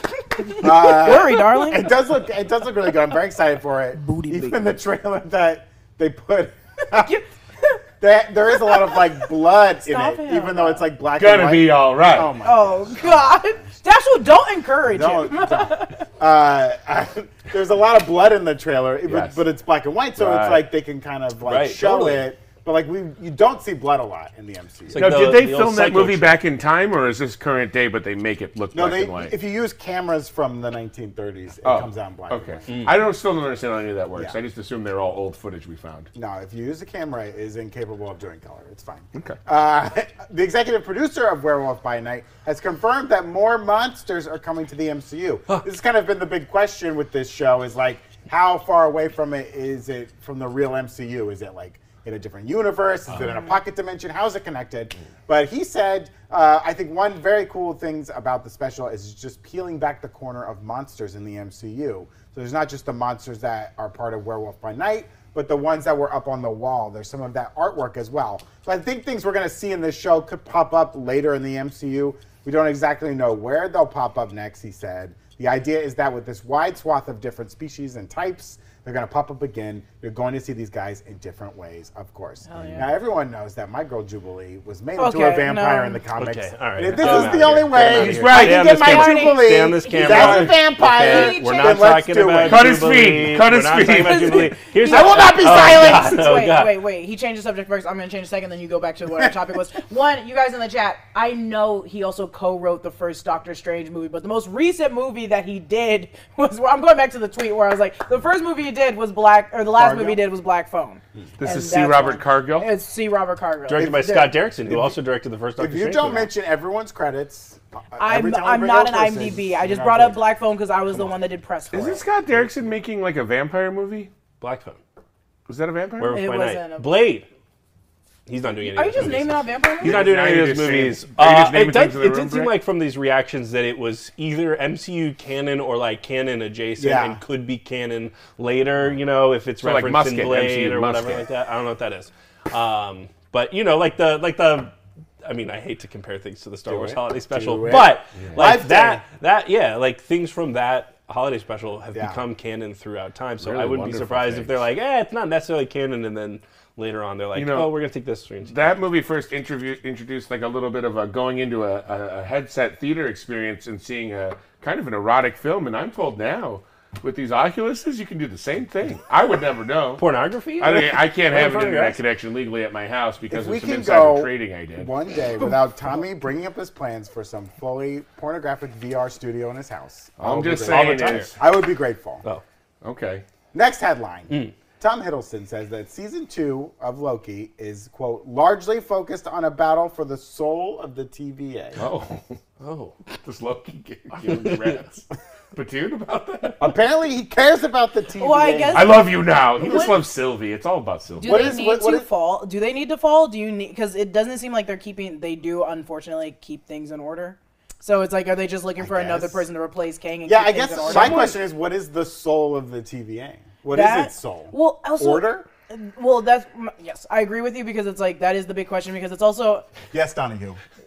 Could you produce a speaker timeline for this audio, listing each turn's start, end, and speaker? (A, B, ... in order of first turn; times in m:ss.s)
0:00.2-0:02.0 A
0:00.5-0:07.2 B
0:04.0-0:04.7 A
0:06.9-0:07.8 A
0:08.0-0:13.7 B
0:08.6-0:09.0 A
0:09.8-0:10.9 A
0:11.2-0:12.3 C
0:12.4-0:16.1 A
0:14.8-0:25.3 B
0:19.1-0:19.4 C
0:20.2-0:20.6 C
0:21.4-0:22.2 D
0:24.9-0:26.4 D
0:25.0-0:29.4 C
0:28.7-0:32.7 B
0:31.6-0:36.1 C
0:32.7-0:33.0 D
0:36.2-1:32.7 B
0:53.2-0:53.6 A
1:22.5-1:22.9 A
1:25.0-1:26.0 A
1:26.1-1:36.8 D
1:27.0-1:28.8 C
1:28.8-1:32.0 A
1:30.1-1:30.5 C
1:32.4-1:34.5 C
1:33.8-1:54.4 A
1:34.8-1:36.3 B
1:49.8-1:50.2 B
1:51.4-1:52.7 C
1:53.7-1:56.3 D
1:53.8-1:54.0 B
1:54.7-1:55.0 B
1:55.6-2:00.2 B
1:58.0-2:02.0 A
2:01.7-2:04.1 C
2:04.4-2:04.8 D
2:05.5-2:06.2 C
2:06.0-2:07.3 D
2:06.1-2:07.0 A
2:08.3-2:24.7 D
2:08.6-2:10.1 A
2:09.8-2:12.5 C
2:16.8-2:17.2 B
2:19.6-2:21.3 C
2:25.2-2:38.6 D
2:26.7-2:29.0 B
2:28.2-2:28.5 C
2:31.9-2:32.2 B
2:33.4-2:34.7 C
2:37.3-2:37.7 C
2:38.5-2:50.0 C
2:50.0-2:52.0 D
2:50.6-2:54.9 C
2:53.3-3:02.2 B
3:00.2-3:01.4 C
3:00.4-3:01.4 D
3:02.8-3:03.2 C
3:03.5-3:11.8 B
3:11.8-3:12.4 C
3:12.6-3:13.0 D
3:13.1-3:16.6 C
3:14.2-3:14.8 D
3:16.6-3:19.1 B
3:18.2-3:20.0 A
3:18.7-3:21.6 C
3:21.2-3:31.4 A
3:21.2-3:22.1 B
3:28.8-3:29.5 B
3:30.3-3:35.5 B
3:33.7-3:39.7 A
3:39.9-3:40.6 B